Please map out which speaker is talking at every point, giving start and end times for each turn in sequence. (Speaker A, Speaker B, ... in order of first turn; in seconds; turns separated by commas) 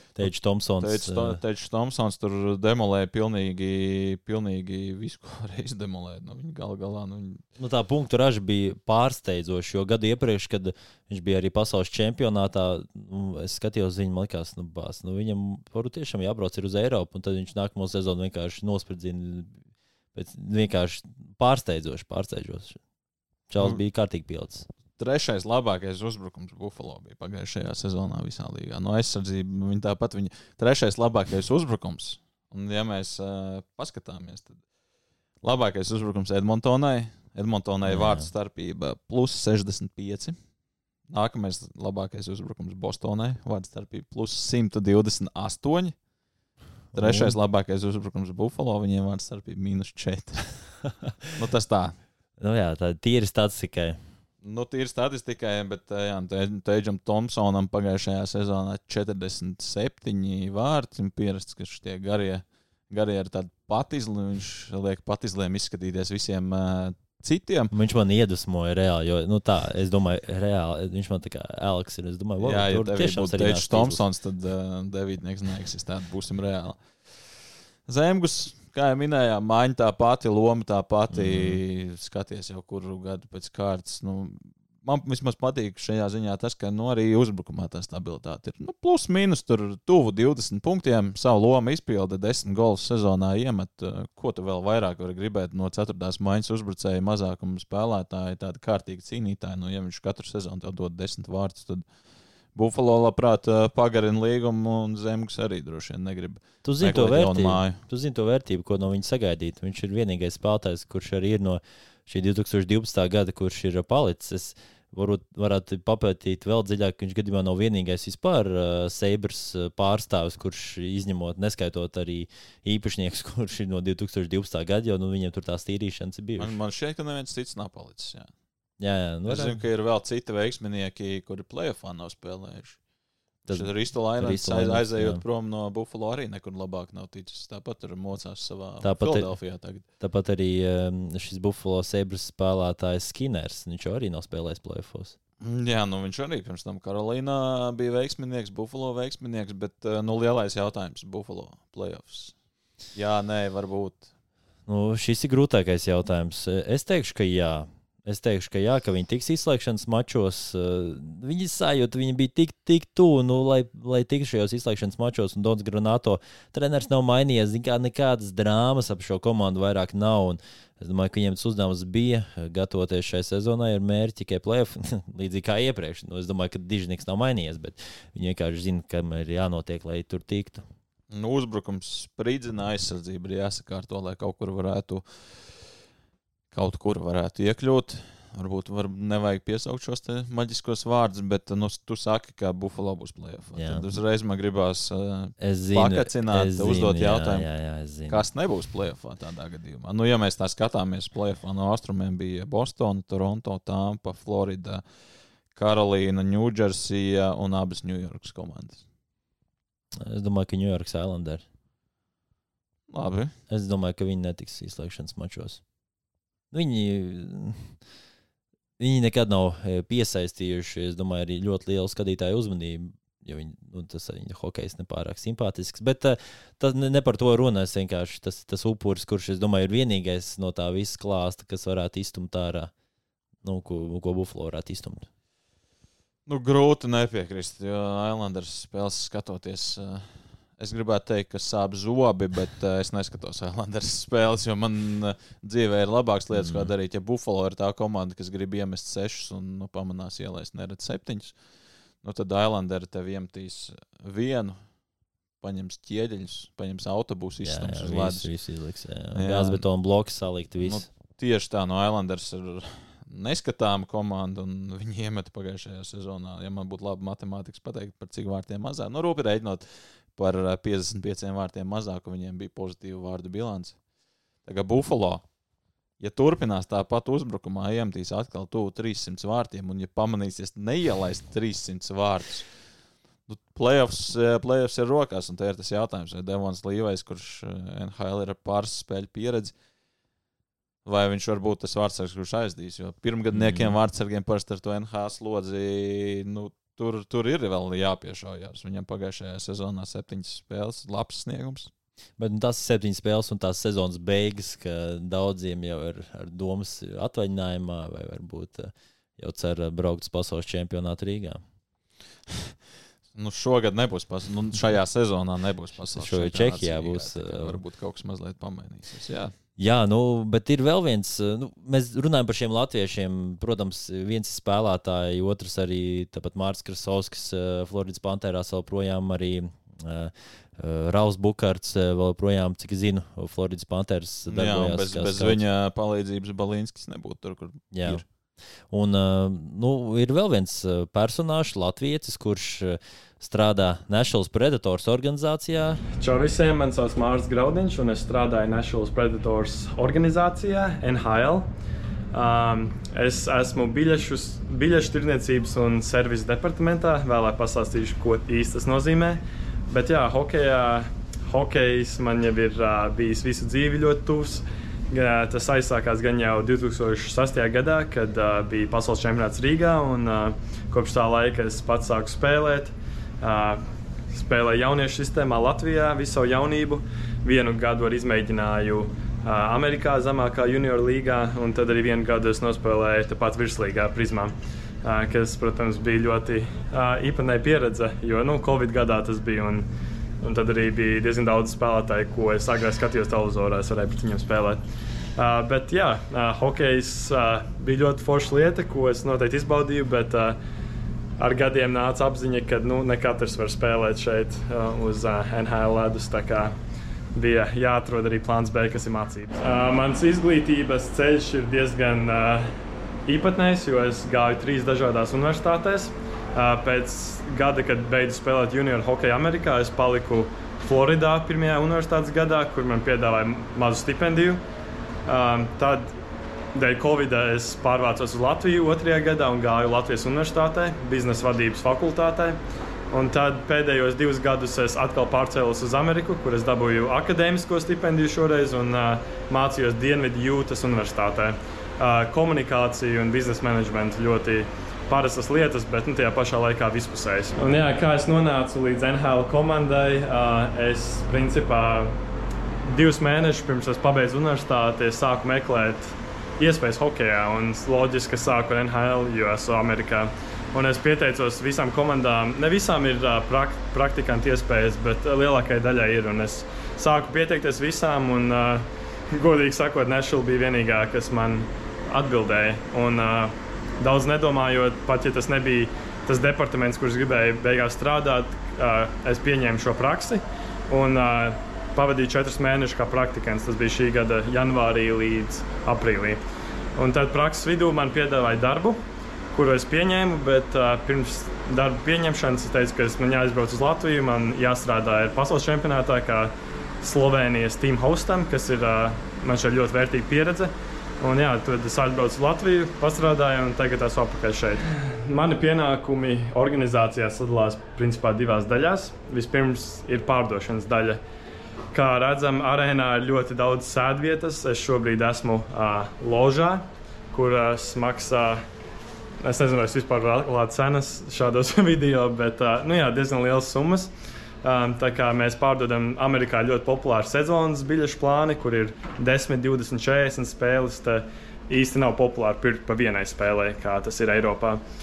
Speaker A: 0.2-1.4, Speaker B: 0.2-7.4, Speaker A: 7.6-19.6, Speaker A: 20.1-22.8, Speaker A: 23.5-24.7, Speaker B: 25.0-34.6, Speaker B: 35.4-40.4, Speaker A: 37.9-38.3, Speaker B: 41.1-46.0, Speaker A: 46.9-47.4, Speaker B: 46.9-50.5, Speaker A: 50.8-51.3, Speaker B: 51.4-51.9, Speaker A: 52.4-54.0, Speaker B: 54.4-67.7, Speaker A: 67.7-74.0, Speaker B: 72.4-76.8, Speaker B: 77.8-101.8, Speaker A: 81.1-81.6, Speaker B: 102.5-107.8, Speaker A: 106.6-126.6, Speaker B: 126.4-128.3, Speaker A: 128.8-129.6, Speaker B: 129.3-132.8, Speaker A: 133.4-135.2, Speaker B: 133.5-139.8, Speaker A: 138.8-139.3, Speaker A: 140.0-145.2, Speaker B: 145.4-152.3, Speaker B: 152.9-154.1, Speaker A: 154.7-180.6, Speaker B: 181.1-185.7, Speaker B: 186.5-197.5, Speaker A: 193.5-193.9, Speaker A: 195.4-198.2, Speaker B: 198.1-204.8, Speaker B: 205.5-208.8, Speaker A: 210.0-211.4, Speaker B: 212.9-213.3, Speaker A: 213.5-215.6, Speaker A: 216.5-217.8, Speaker A: 218.8-232.7, Speaker A: 233.4-235.1, Speaker B: 236.2-251.3, Speaker A: 246.3-246.7, Speaker B: 252.0-254.6, Speaker B: 255.4-258.3, Speaker A: 257.4-260.8, Speaker B: 259.1-259.6, Speaker B: 260.6-273.8, Speaker B: 274.4-275.2, Speaker B: 276.0-282.4, Speaker B: 283.3-289.5, Speaker B: 290.8-301.7, Speaker A: 293.3-293.8, Speaker A: 302.2-311.4, Speaker B: 313.1-319.3, Speaker A: 315.9-317.6, Speaker A: 319.6-335.4, Speaker B: 334.3-338.0, Speaker A: 337.7-338.0, Speaker A: 338.7-345.8, Speaker C: 346.0-351.5, Speaker C: 352.1-389.7, Speaker C: 390.2-394.6, Speaker C: 395.1-400.4, Speaker C: 401.2-406.5, Speaker C: 407.1-412.5, Speaker C: 413.1-424.4, Speaker C: 425.1-425.9, Speaker C: 426.5-432.4, Speaker C: 432.9-451.9, Speaker C: 452.7-486.2, Speaker C: 486.8-488.8, Speaker C: 489.3-511.0, Speaker C: 511.7-518.4, Speaker C: 519.2-523.9, Speaker C: 524.4-534.6